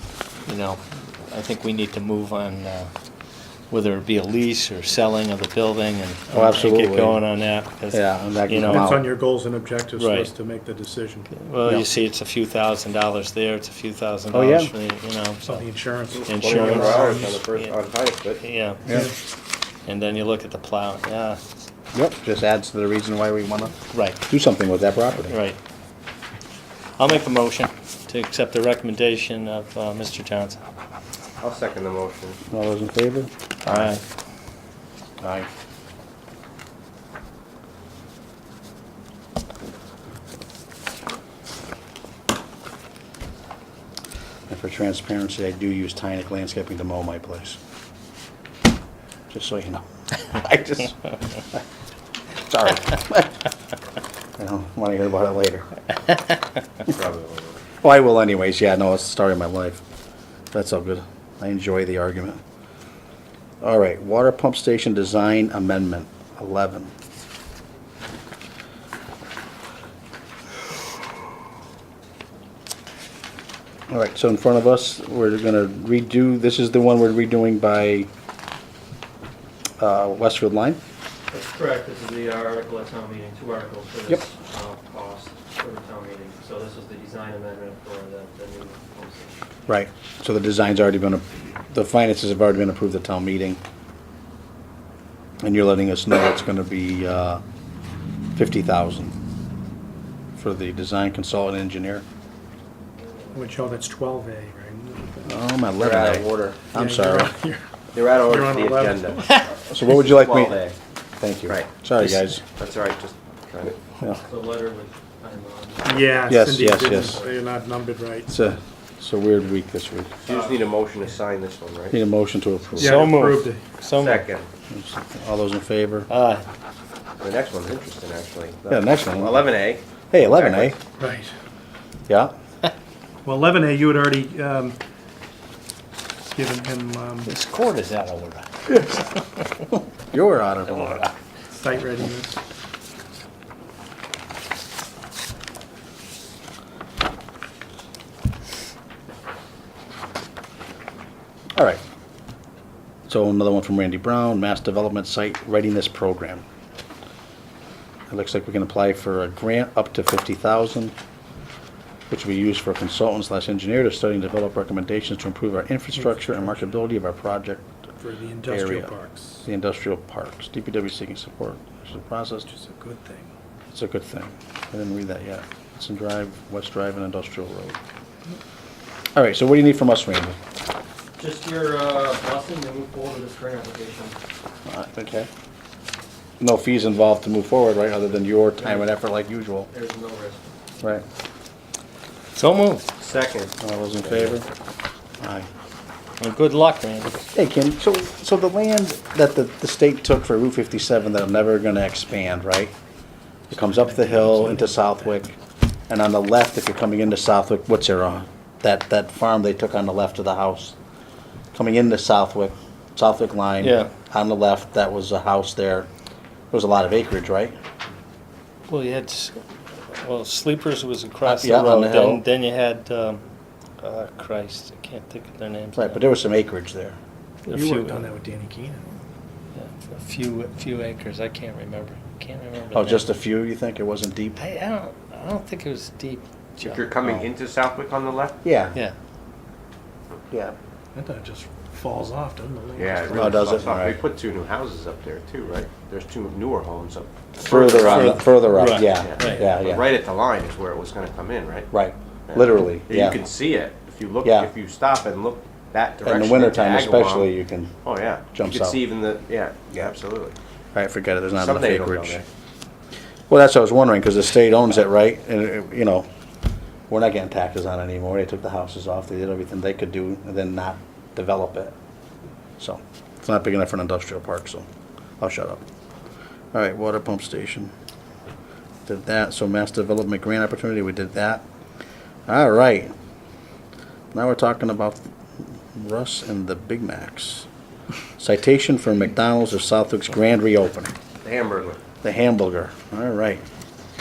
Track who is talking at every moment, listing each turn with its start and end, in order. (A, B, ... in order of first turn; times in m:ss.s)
0:00.4-0:02.9 A
0:03.7-0:08.9 A
0:06.3-0:07.2 B
0:07.9-0:09.0 B
0:08.7-0:11.3 C
0:10.0-0:10.3 A
0:11.3-0:15.6 A
0:14.3-0:14.7 B
0:15.4-0:17.4 C
0:16.1-0:18.4 D
0:16.2-0:17.7 A
0:18.4-0:18.9 A
0:19.8-0:21.4 A
0:21.9-0:23.8 B
0:23.9-0:24.2 A
0:24.3-0:25.4 B
0:25.3-0:25.6 A
0:27.0-0:30.6 A
0:31.4-0:32.4 D
0:32.5-0:33.9 B
0:33.6-0:34.0 A
0:35.2-0:35.5 B
0:44.5-0:47.6 B
0:49.3-0:51.0 B
0:52.4-0:53.3 B
0:54.4-0:55.7 B
0:56.8-0:57.6 D
0:57.8-0:59.8 B
1:00.5-1:02.4 B
1:03.6-1:06.9 B
1:13.9-1:18.1 B
1:19.8-1:20.8 B
1:21.3-1:29.4 E
1:29.7-1:33.6 B
1:35.4-1:37.4 B
1:38.3-1:39.1 B
1:40.4-1:42.0 B
1:43.3-1:45.3 C
1:45.2-1:47.3 B
1:45.8-1:46.6 D
1:46.7-1:47.6 C
1:47.9-1:50.8 D
1:48.2-1:49.4 C
1:49.7-1:50.6 B
1:51.2-1:52.4 B
1:51.5-1:53.7 D
1:54.2-1:56.1 E
1:55.8-1:58.3 C
1:56.3-1:57.2 B
1:56.8-1:57.3 E
1:58.3-2:00.2 B
2:00.2-2:02.0 D
2:01.9-2:03.1 B
2:02.8-2:03.6 C
2:02.8-2:04.2 A
2:03.9-2:04.5 D
2:04.7-2:06.1 B
2:06.1-2:06.4 A
2:07.2-2:10.7 D
2:08.7-2:09.4 B
2:10.1-2:10.8 B
2:11.0-2:11.3 C
2:12.1-2:12.3 B
2:13.2-2:14.8 C
2:16.3-2:17.3 C
2:17.3-2:19.0 A
2:20.1-2:21.1 B
2:21.5-2:22.4 C
2:33.1-2:36.4 B
2:38.1-2:40.9 B
2:42.1-2:47.6 B
2:46.0-2:46.6 C
2:48.0-2:49.4 C
2:48.5-2:48.9 B
2:49.4-2:52.5 B
2:52.5-2:53.3 C
2:53.7-2:57.8 B
2:59.1-3:00.4 B
3:01.2-3:04.1 E
3:04.6-3:05.3 B
3:06.4-3:09.7 B
3:08.6-3:08.8 E
3:09.7-3:10.8 E
3:12.3-3:12.8 A
3:13.0-3:14.4 D
3:13.6-3:14.4 B
3:15.2-3:15.5 B
3:16.2-3:17.2 A
3:17.3-3:22.7 B
3:23.5-3:25.3 B
3:25.9-3:30.7 B
3:31.5-3:35.9 B
3:33.6-3:33.9 A
3:36.5-3:37.6 B
3:38.7-3:39.4 A
3:39.9-3:43.2 A
3:41.2-3:42.2 B
3:43.8-3:46.0 A
3:45.8-3:47.0 B
3:47.5-3:48.1 A
3:47.5-3:48.8 C
3:49.5-3:53.1 A
3:52.7-3:54.4 B
3:54.4-3:56.8 A
3:56.6-3:58.4 D
3:58.4-3:58.8 B
4:00.9-4:03.6 C
4:02.8-4:11.7 D
4:03.1-4:04.0 B
4:07.4-4:09.9 B
4:07.5-4:09.5 A
4:11.7-4:13.2 B
4:12.3-4:20.4 D
4:14.2-4:14.5 B
4:16.0-4:17.8 B
4:18.3-4:18.8 B
4:20.7-4:22.2 B
4:21.3-4:22.2 D
4:23.3-4:26.1 B
4:26.9-4:31.7 B
4:32.6-4:34.6 B
4:35.2-4:35.6 B
4:36.5-4:37.7 B
4:38.8-4:41.4 B
4:42.3-4:42.9 B
4:44.1-4:45.1 B
4:45.7-4:47.5 B
4:48.2-4:50.9 B
4:51.2-4:51.8 D
4:52.0-4:53.4 B